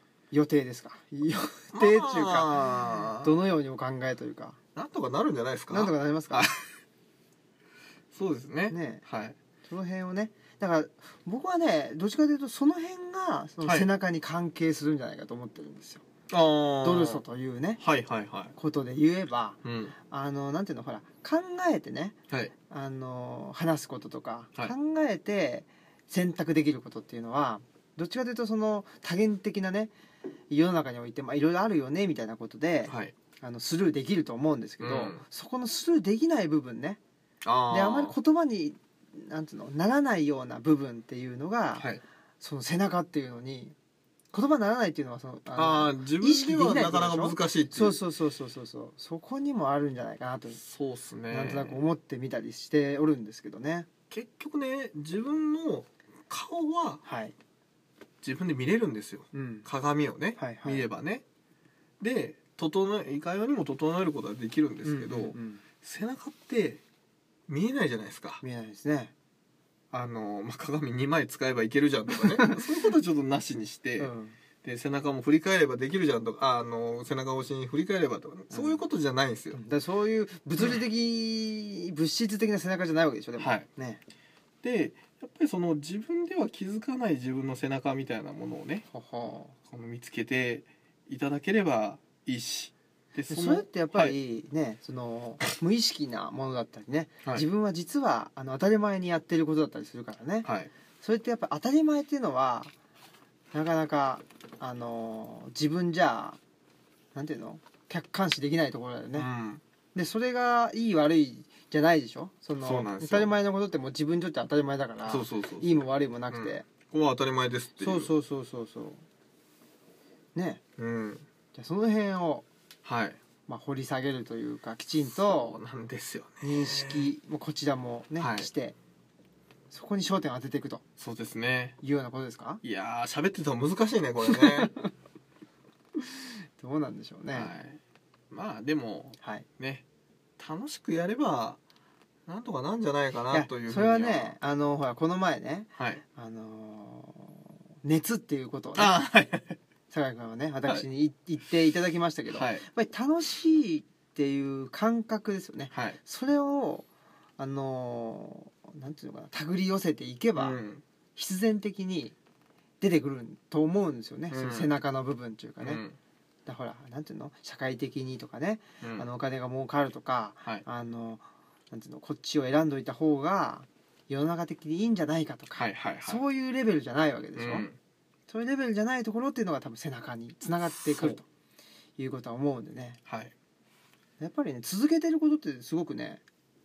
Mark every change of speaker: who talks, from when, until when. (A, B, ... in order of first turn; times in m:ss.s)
0:00.3-0:02.6 A
0:01.7-0:03.3 B
0:03.2-0:04.6 A
0:04.8-0:06.6 B
0:05.7-0:06.5 A
0:08.1-0:09.4 B
0:08.7-0:09.0 A
0:09.6-0:16.0 A
0:16.3-0:17.2 B
0:16.8-0:17.8 A
0:17.8-0:18.5 B
0:18.6-0:22.2 A
0:19.6-0:19.9 B
0:22.7-0:29.9 A
0:30.5-0:37.0 A
0:32.9-0:33.1 B
0:34.8-0:35.2 B
0:37.4-0:38.1 B
0:37.7-0:41.9 A
0:41.8-0:42.0 B
0:42.4-0:43.7 A
0:44.3-0:50.6 A
0:45.5-0:48.0 B
0:50.6-0:51.8 B
0:51.3-0:53.9 A
0:54.1-0:57.0 B
0:57.0-0:57.3 A
0:58.2-1:01.2 B
0:59.3-0:59.6 A
1:00.4-1:00.8 A
1:02.0-1:06.8 B
1:04.8-1:05.6 A
1:07.5-1:08.4 B
1:08.4-1:09.1 A
1:09.9-1:14.1 B
1:12.4-1:12.7 A
1:14.0-1:14.4 A
1:14.6-1:19.6 B
1:18.5-1:18.8 A
1:19.5-1:24.0 A
1:23.4-1:23.6 B
1:24.6-1:28.8 B
1:28.9-1:29.5 A
1:29.7-1:34.2 B
1:33.3-1:40.5 A
1:40.4-1:40.7 B
1:41.0-1:42.7 A
1:43.5-1:46.4 A
1:47.1-1:49.3 A
1:49.1-1:49.6 B
1:49.9-1:56.6 A
1:52.6-1:53.3 B
1:55.1-1:58.1 B
1:57.8-1:59.0 A
2:00.3-2:00.6 A
2:00.8-2:01.2 B
2:01.5-2:02.4 A
2:02.8-2:03.2 B
2:03.5-2:05.6 A
2:05.0-2:07.1 B
2:06.4-2:08.8 A
2:08.2-2:08.5 B
2:09.7-2:10.8 A
2:11.0-2:11.8 B
2:11.8-2:12.6 A
2:12.6-2:14.7 B
2:14.2-2:14.9 A
2:16.0-2:17.5 A
2:17.3-2:17.8 B
2:18.3-2:19.8 B
2:19.2-2:19.4 A
2:20.4-2:21.6 B
2:22.3-2:24.3 B
2:23.3-2:28.9 A
2:25.8-2:26.0 B
2:28.8-2:29.6 B
2:29.9-2:36.8 A
2:32.3-2:32.6 B
2:35.7-2:36.0 B
2:37.4-2:40.6 A
2:40.4-2:40.8 B
2:41.2-2:42.1 A
2:42.8-2:45.8 A
2:44.3-2:44.7 B
2:45.6-2:46.0 B
2:46.4-2:57.6 A
2:48.8-2:49.1 B
2:55.6-2:56.2 B
2:57.4-2:57.8 B
2:58.3-3:01.2 A
3:00.8-3:01.2 B
3:02.0-3:03.0 A
3:03.1-3:03.3 B
3:04.2-3:06.2 A